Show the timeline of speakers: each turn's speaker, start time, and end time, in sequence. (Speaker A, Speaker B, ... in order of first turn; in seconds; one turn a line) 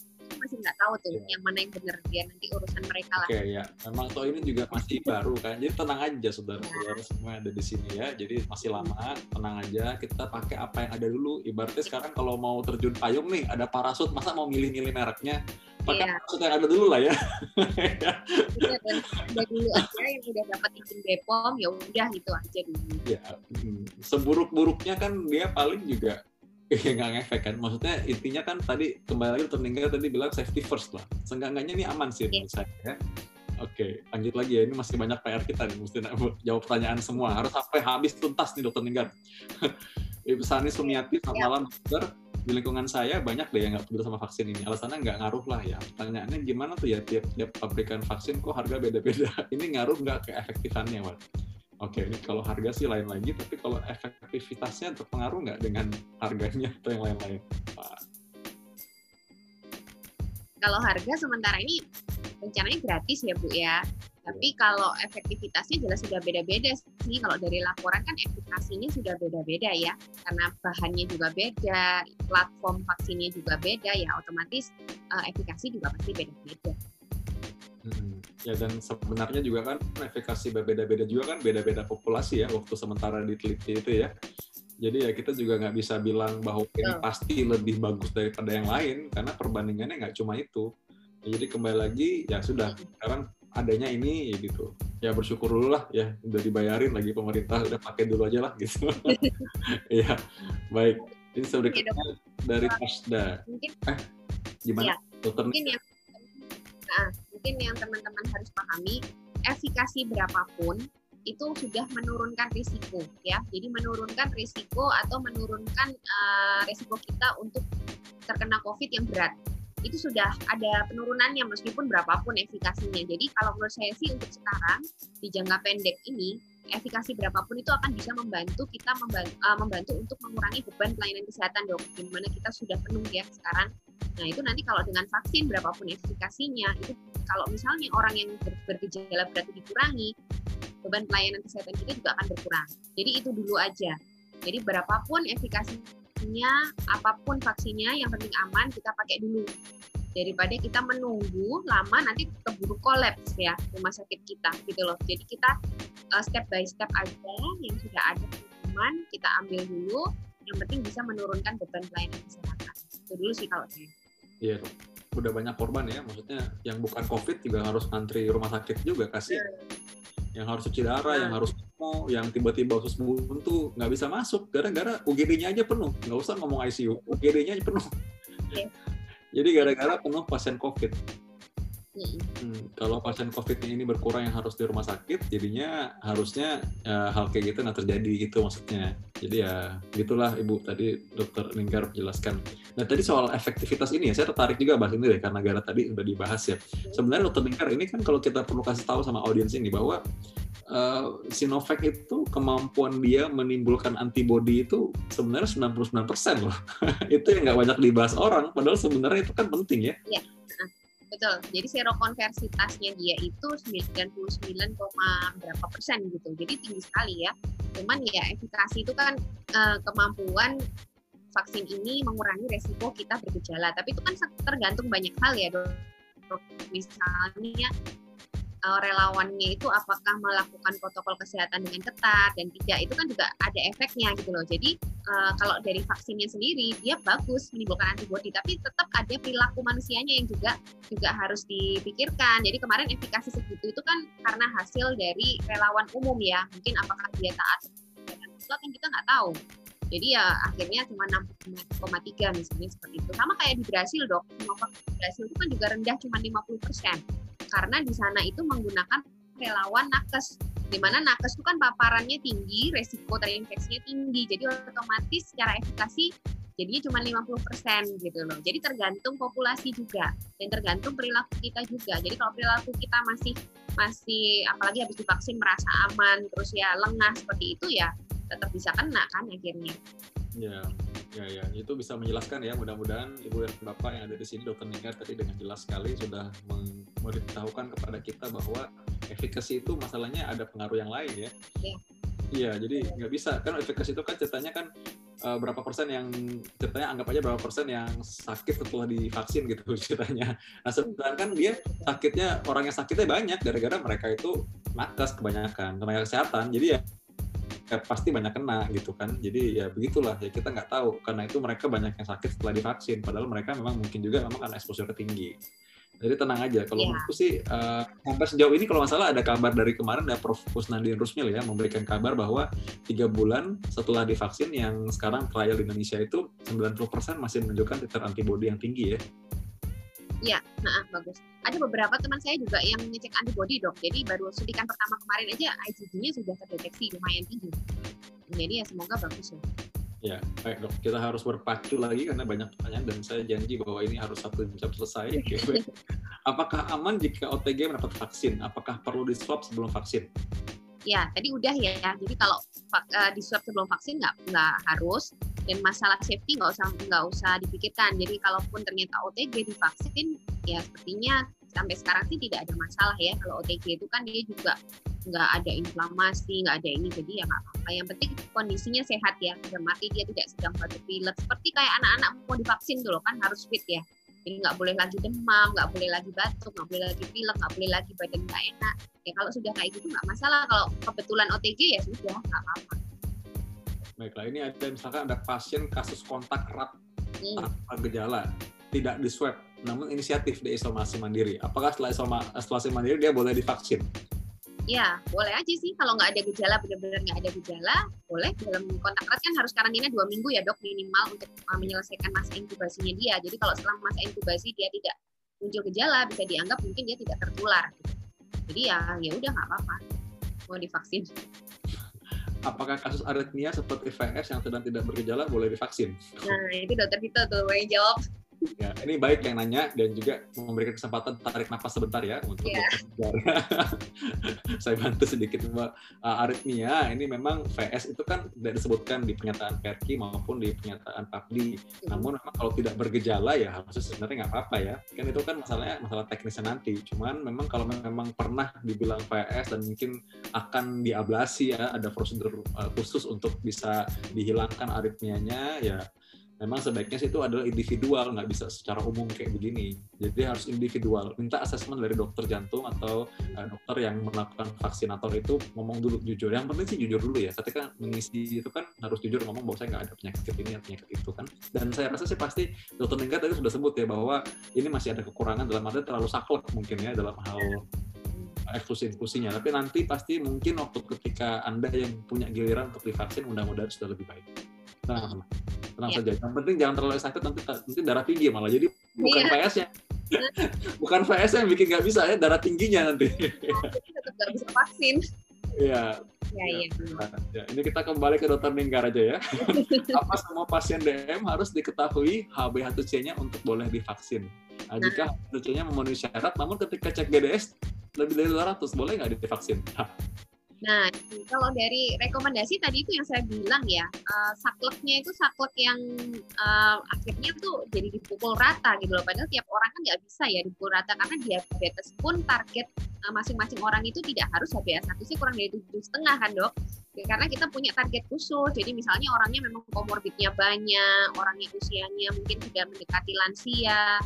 Speaker A: 0.3-3.3
Speaker B: 3.2-19.3
Speaker A: 4.4-4.8
Speaker A: 6.6-6.9
Speaker A: 15.9-16.2
Speaker A: 18.6-23.0
Speaker B: 23.1-26.2
Speaker B: 26.7-32.9
Speaker B: 33.6-39.1
Speaker B: 40.3-51.2
Speaker A: 40.8-41.5
Speaker B: 51.8-58.0
Speaker A: 60.6-61.8
Speaker A: 62.4-76.7
Speaker B: 77.8-84.1
Speaker B: 84.8-90.6
Speaker B: 91.3-99.1
Speaker A: 99.1-99.5
Speaker B: 100.7-104.0
Speaker A: 101.0-102.0
Speaker A: 103.5-103.7
Speaker B: 104.7-105.7
Speaker A: 105.5-117.6
Speaker A: 118.3-119.3
Speaker A: 119.8-133.7
Speaker A: 134.2-140.1
Speaker A: 140.8-143.9
Speaker A: 144.4-149.4
Speaker A: 150.2-155.5
Speaker A: 156.2-163.9
Speaker B: 164.4-169.4
Speaker A: 169.3-169.6
Speaker B: 170.4-177.8
Speaker A: 171.1-171.5
Speaker B: 179.3-181.0
Speaker A: 179.6-180.0
Speaker A: 182.0-182.3
Speaker B: 182.4-200.0
Speaker B: 200.7-206.5
Speaker B: 207.1-209.9
Speaker A: 210.1-220.5
Speaker A: 221.3-227.7
Speaker A: 228.7-249.3
Speaker A: 249.9-257.0
Speaker A: 257.5-279.8
Speaker B: 280.4-291.3
Speaker B: 292.4-294.7
Speaker B: 295.2-296.1
Speaker B: 296.6-306.8
Speaker A: 301.5-301.9
Speaker B: 307.7-315.3
Speaker B: 316.0-329.0
Speaker A: 316.8-317.1
Speaker A: 330.2-337.6
Speaker A: 338.3-339.4
Speaker B: 340.0-345.6
Speaker A: 345.2-345.6
Speaker B: 346.3-350.0
Speaker A: 350.9-364.6
Speaker A: 365.1-382.8
Speaker B: 384.0-386.7
Speaker A: 387.2-387.5
Speaker B: 387.4-393.8
Speaker A: 394.7-407.9
Speaker A: 408.5-409.8
Speaker A: 410.5-411.1
Speaker B: 412.5-416.4
Speaker A: 416.2-418.5
Speaker B: 418.6-423.3
Speaker B: 424.6-445.8
Speaker B: 446.4-467.6
Speaker A: 453.2-453.5
Speaker A: 468.1-468.4
Speaker B: 468.5-474.2
Speaker B: 474.9-475.2
Speaker B: 475.8-483.7
Speaker A: 479.0-479.4
Speaker A: 483.2-485.0
Speaker B: 485.6-485.9
Speaker A: 486.3-487.0
Speaker B: 486.4-499.9
Speaker A: 489.4-490.1
Speaker A: 500.6-505.8
Speaker A: 506.4-523.9